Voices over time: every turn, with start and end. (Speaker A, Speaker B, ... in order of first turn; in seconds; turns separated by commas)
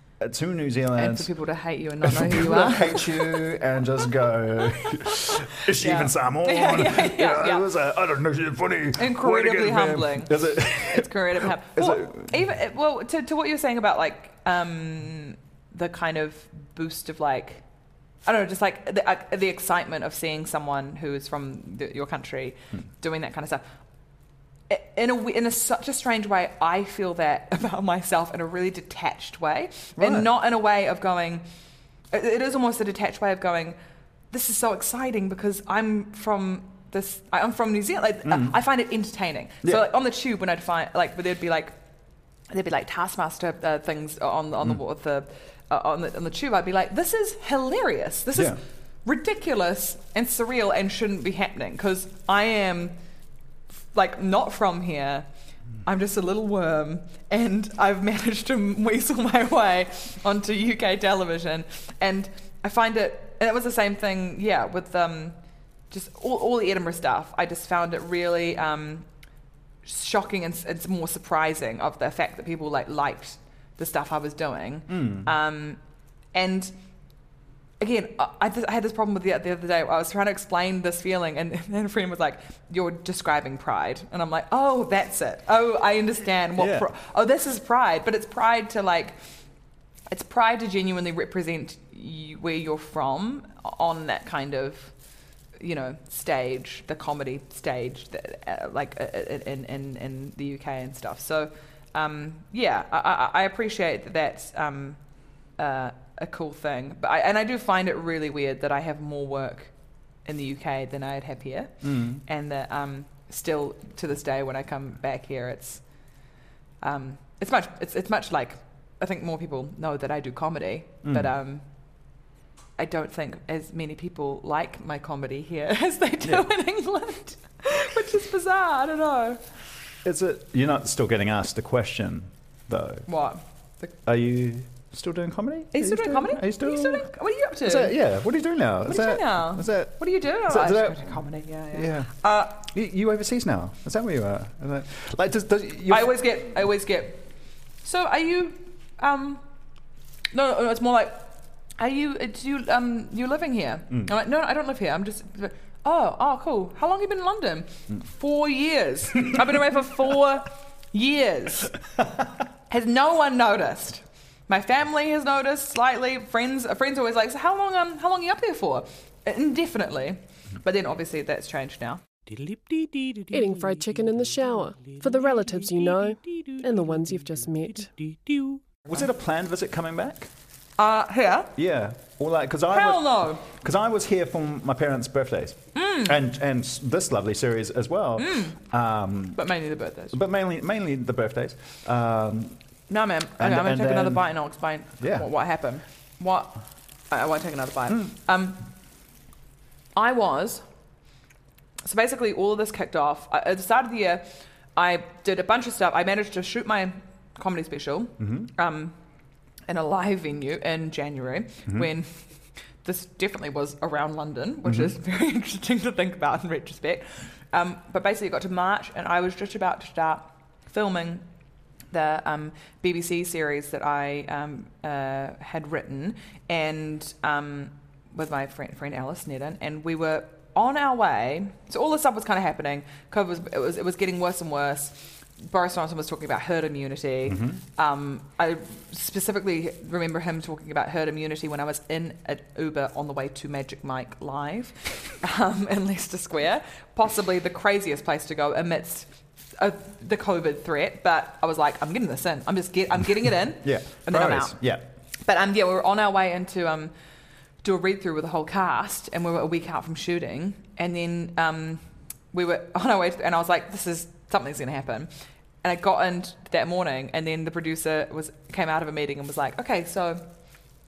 Speaker A: 0.2-1.3, Speaker B: 1.0-3.5, Speaker A: 2.0-12.4, Speaker B: 4.8-7.7, Speaker B: 9.0-17.6, Speaker B: 18.2-23.6, Speaker B: 24.7-31.4, Speaker A: 30.0-30.3, Speaker B: 32.1-33.8, Speaker B: 34.3-41.8, Speaker A: 38.3-38.5, Speaker B: 42.5-53.0, Speaker B: 53.9-55.3, Speaker B: 55.8-69.1, Speaker B: 69.8-75.8, Speaker A: 74.9-75.3, Speaker B: 76.3-76.7, Speaker B: 77.8-89.2, Speaker A: 86.6-86.9, Speaker B: 90.1-95.0, Speaker B: 95.5-116.2, Speaker A: 111.8-112.2, Speaker B: 116.8-122.1, Speaker A: 121.0-121.3, Speaker B: 122.8-129.4, Speaker A: 130.0-133.1, Speaker B: 133.1-133.9, Speaker A: 134.0-137.1, Speaker B: 135.7-138.0, Speaker A: 137.6-141.2, Speaker B: 138.9-142.6, Speaker A: 141.7-146.2, Speaker B: 145.9-147.3, Speaker B: 147.8-149.4, Speaker B: 150.3-161.8, Speaker B: 162.7-172.0, Speaker C: 173.3-178.1, Speaker A: 178.9-180.3, Speaker B: 180.8-181.5, Speaker A: 181.5-189.5, Speaker B: 182.7-183.4, Speaker B: 185.8-186.2, Speaker B: 188.2-188.6, Speaker B: 189.3-190.2, Speaker A: 190.1-192.6, Speaker B: 192.9-198.6, Speaker A: 193.4-194.2, Speaker A: 195.0-195.3, Speaker B: 199.9-200.6, Speaker B: 201.8-209.0, Speaker A: 208.2-208.5, Speaker B: 209.7-221.2, Speaker A: 214.6-214.9, Speaker B: 221.9-254.6, Speaker A: 237.3-237.6, Speaker A: 253.6-254.8, Speaker B: 255.2-256.9, Speaker B: 257.6-265.1, Speaker B: 265.6-270.7